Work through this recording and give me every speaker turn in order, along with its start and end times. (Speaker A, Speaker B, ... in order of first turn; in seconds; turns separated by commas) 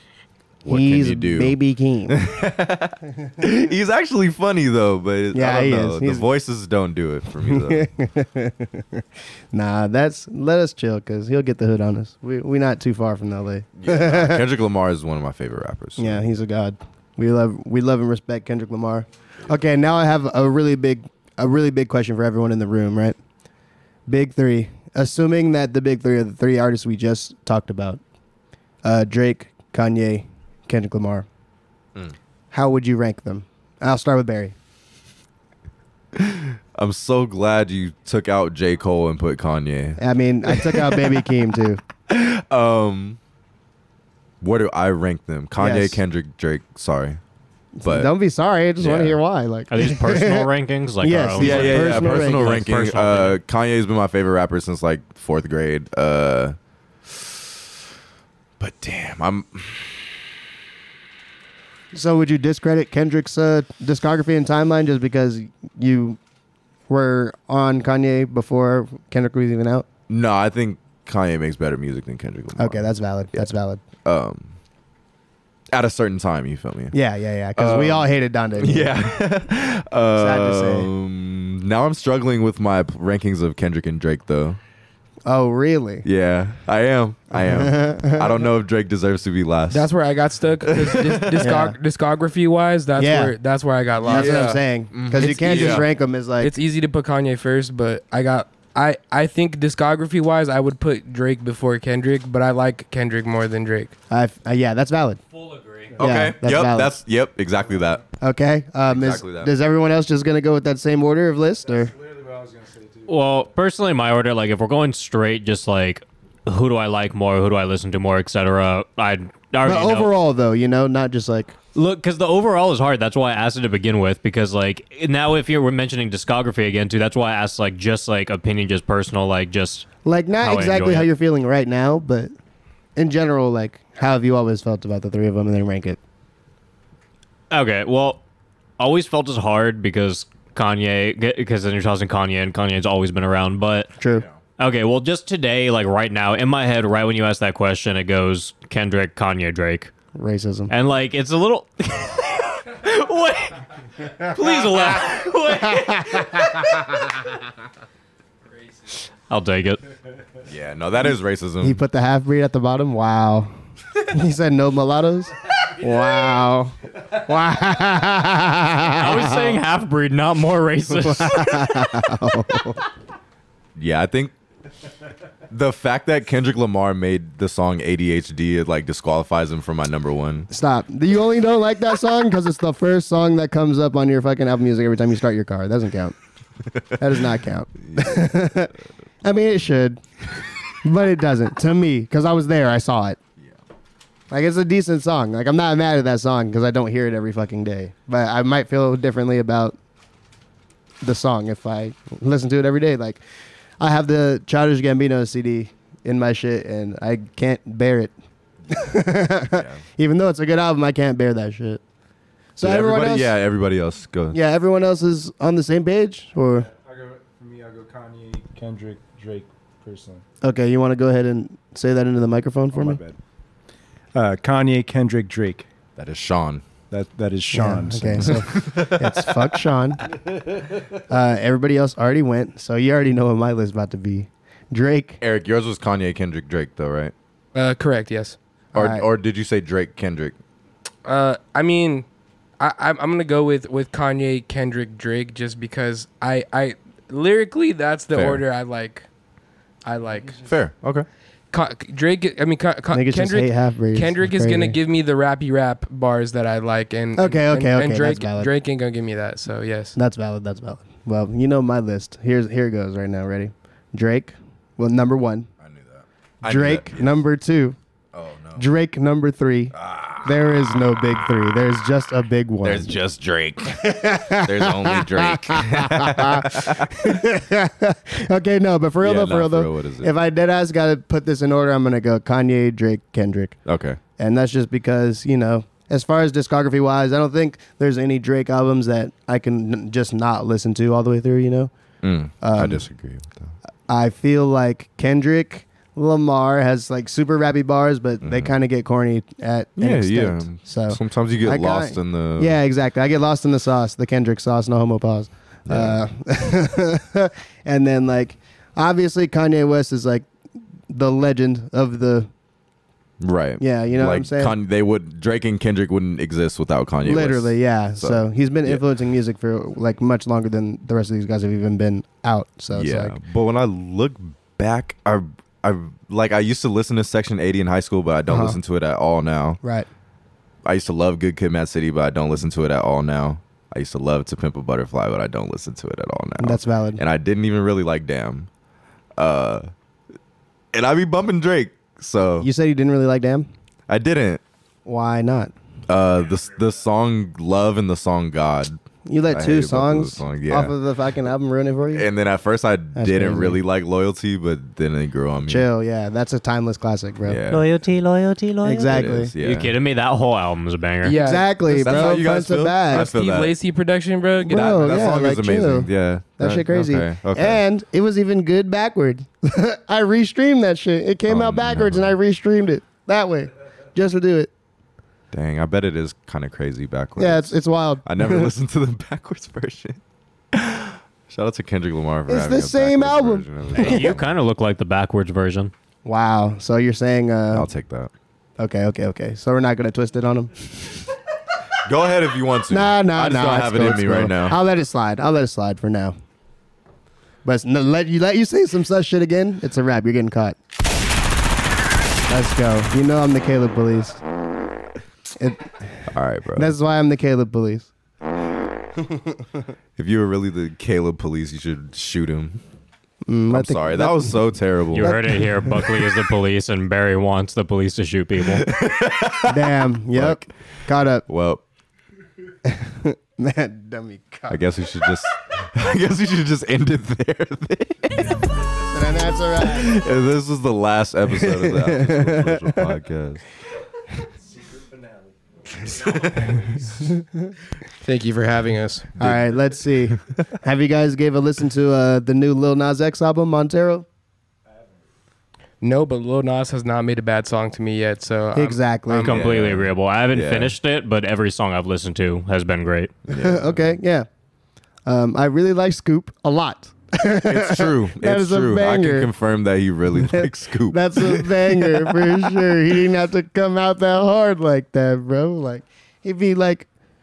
Speaker A: 0.6-1.6, Speaker B: 0.7-2.2, Speaker A: 2.1-7.9, Speaker B: 5.3-6.2, Speaker B: 7.4-14.5, Speaker A: 13.8-16.2, Speaker B: 16.0-23.2, Speaker B: 24.1-28.0, Speaker B: 28.8-31.3, Speaker B: 32.5-34.5, Speaker A: 36.1-41.2, Speaker B: 40.0-41.8, Speaker A: 42.1-43.2, Speaker A: 44.4-47.2, Speaker B: 45.6-46.0, Speaker B: 47.8-50.5, Speaker A: 47.8-48.1, Speaker A: 48.8-49.2, Speaker C: 49.7-53.4, Speaker B: 51.0-52.6, Speaker A: 51.4-57.5, Speaker A: 58.6-60.0, Speaker B: 61.9-66.2, Speaker B: 66.9-69.9, Speaker A: 70.1-73.5, Speaker B: 72.6-73.8, Speaker A: 74.0-74.5, Speaker A: 75.7-77.0, Speaker B: 76.9-79.0, Speaker A: 77.6-84.6, Speaker B: 80.1-80.9, Speaker B: 85.3-86.1, Speaker A: 86.0-89.9, Speaker B: 87.3-88.4, Speaker D: 89.7-94.5, Speaker A: 90.6-91.4, Speaker B: 91.4-91.8, Speaker B: 93.0-93.4, Speaker B: 94.0-96.5, Speaker A: 94.1-95.9, Speaker D: 95.5-95.8, Speaker D: 96.4-104.0, Speaker B: 104.1-105.2, Speaker E: 105.8-106.1, Speaker B: 106.0-107.0, Speaker A: 106.0-108.0, Speaker B: 108.2-111.9, Speaker A: 108.9-109.5, Speaker E: 111.6-113.5, Speaker C: 113.1-120.1, Speaker B: 119.6-121.6, Speaker C: 121.7-129.9, Speaker B: 130.1-132.3, Speaker C: 130.4-131.1, Speaker B: 132.9-136.0, Speaker C: 137.5-138.2, Speaker C: 138.8-143.9, Speaker B: 144.0-144.2, Speaker C: 144.6-149.9, Speaker B: 150.1-150.7, Speaker C: 150.7-153.6, Speaker C: 154.2-156.5, Speaker B: 155.7-156.3, Speaker C: 159.3-159.8, Speaker A: 160.4-161.8, Speaker B: 161.6-169.6, Speaker C: 169.0-171.8, Speaker B: 170.9-172.8, Speaker A: 173.8-174.3, Speaker A: 175.5-180.5, Speaker B: 180.5-186.1, Speaker B: 186.9-190.0, Speaker B: 190.8-193.2, Speaker B: 194.3-199.8, Speaker B: 201.0-203.2, Speaker B: 203.8-208.1, Speaker B: 208.7-211.8, Speaker A: 209.5-209.8, Speaker B: 212.6-213.3, Speaker A: 212.6-214.4, Speaker B: 214.3-216.7, Speaker E: 216.5-220.2, Speaker B: 220.4-223.0, Speaker E: 222.7-223.2, Speaker E: 224.1-225.7, Speaker A: 226.0-226.6, Speaker E: 226.9-228.4, Speaker B: 227.5-230.1, Speaker A: 228.5-229.0, Speaker B: 231.1-235.2, Speaker A: 235.2-237.1, Speaker D: 237.6-238.4, Speaker B: 238.7-239.1, Speaker A: 238.7-240.4, Speaker D: 241.1-242.1, Speaker D: 242.6-249.1, Speaker A: 248.1-248.4, Speaker D: 249.8-250.4, Speaker A: 250.4-251.1, Speaker D: 251.5-259.9, Speaker B: 252.9-254.8, Speaker B: 257.2-258.5, Speaker B: 259.9-265.5, Speaker A: 265.6-267.2, Speaker B: 266.4-267.8, Speaker A: 268.1-268.6, Speaker B: 268.6-272.9, Speaker A: 269.7-270.5, Speaker A: 272.6-277.1, Speaker B: 273.7-283.6, Speaker A: 279.0-280.1, Speaker A: 283.7-284.0, Speaker B: 284.2-291.7, Speaker A: 292.0-293.5, Speaker B: 292.4-292.8, Speaker B: 293.9-310.3, Speaker A: 298.2-298.5, Speaker A: 299.8-302.6, Speaker A: 305.7-306.0, Speaker B: 310.9-312.3, Speaker A: 313.2-318.8, Speaker B: 313.6-314.6, Speaker B: 317.0-323.2, Speaker A: 322.7-329.6, Speaker B: 328.3-328.6, Speaker B: 329.6-329.9, Speaker A: 330.6-338.5, Speaker B: 336.4-337.0, Speaker A: 339.2-339.7, Speaker A: 340.7-342.5, Speaker B: 342.4-343.5, Speaker A: 343.9-344.4, Speaker B: 344.9-345.5, Speaker A: 345.9-348.8, Speaker B: 349.1-352.1, Speaker A: 349.3-350.7, Speaker A: 351.9-355.7, Speaker B: 352.9-353.6, Speaker B: 355.5-357.4, Speaker A: 357.2-357.7, Speaker C: 357.5-361.2, Speaker B: 358.6-359.3, Speaker A: 358.9-359.7, Speaker D: 361.0-362.2, Speaker B: 361.1-363.1, Speaker A: 361.8-363.5, Speaker D: 362.9-365.1, Speaker B: 364.4-374.5, Speaker A: 364.5-367.6, Speaker A: 371.3-372.2, Speaker A: 375.3-377.5, Speaker B: 377.2-378.5, Speaker A: 378.1-380.0, Speaker A: 380.5-384.3, Speaker B: 382.3-384.1, Speaker C: 383.7-385.7, Speaker B: 386.1-387.7, Speaker A: 387.5-388.1, Speaker B: 388.6-391.0, Speaker A: 391.8-394.6, Speaker B: 392.7-396.1, Speaker B: 397.4-400.6, Speaker B: 402.3-404.2, Speaker B: 405.4-406.0, Speaker A: 406.1-406.7, Speaker B: 406.6-407.9, Speaker B: 409.0-409.4, Speaker A: 410.0-412.6, Speaker B: 413.3-414.4, Speaker A: 413.5-415.2, Speaker C: 414.9-418.6, Speaker B: 415.0-415.9, Speaker A: 418.6-420.5, Speaker B: 419.5-421.3, Speaker A: 421.3-421.6, Speaker B: 422.6-424.6, Speaker A: 424.5-428.4, Speaker B: 428.9-429.9, Speaker A: 429.7-433.4, Speaker B: 431.3-432.9, Speaker E: 434.5-437.1, Speaker A: 435.9-436.7, Speaker D: 438.0-439.1, Speaker A: 439.2-440.2, Speaker B: 439.2-444.1, Speaker D: 445.8-449.4, Speaker B: 448.5-449.4, Speaker C: 449.2-453.1, Speaker A: 449.3-450.7, Speaker A: 453.3-453.9, Speaker B: 453.4-454.3, Speaker B: 455.1-459.3, Speaker A: 457.4-462.7, Speaker B: 460.1-466.9